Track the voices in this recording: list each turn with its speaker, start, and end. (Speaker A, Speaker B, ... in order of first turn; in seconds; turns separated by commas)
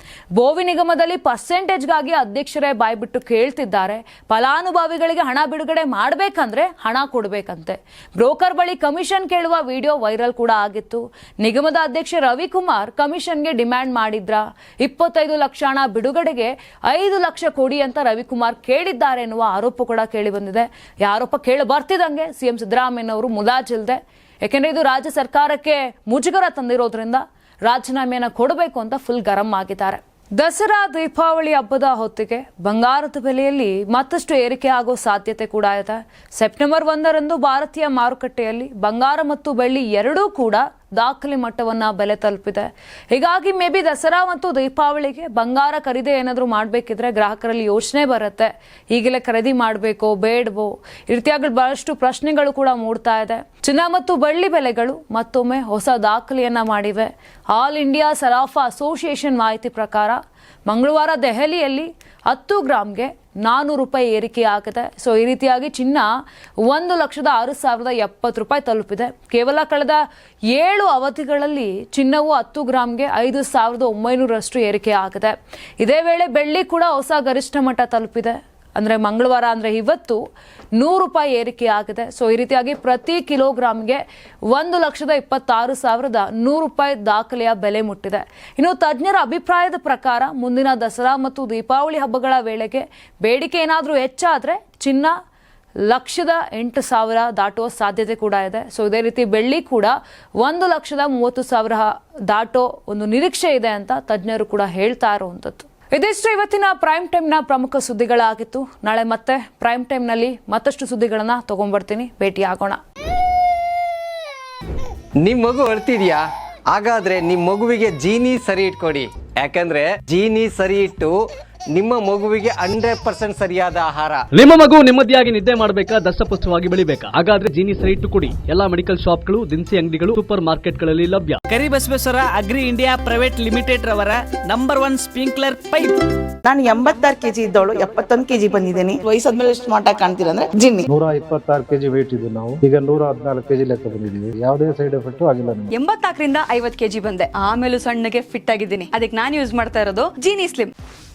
Speaker A: 0.4-66.1, Speaker A: 66.7-70.0, Speaker A: 70.5-80.2, Speaker A: 80.8-95.1, Speaker A: 95.9-112.8, Speaker B: 115.2-121.1, Speaker B: 121.7-124.3, Speaker C: 124.3-131.4, Speaker D: 131.5-136.1, Speaker E: 136.4-140.9, Speaker F: 140.9-145.7, Speaker G: 145.7-150.7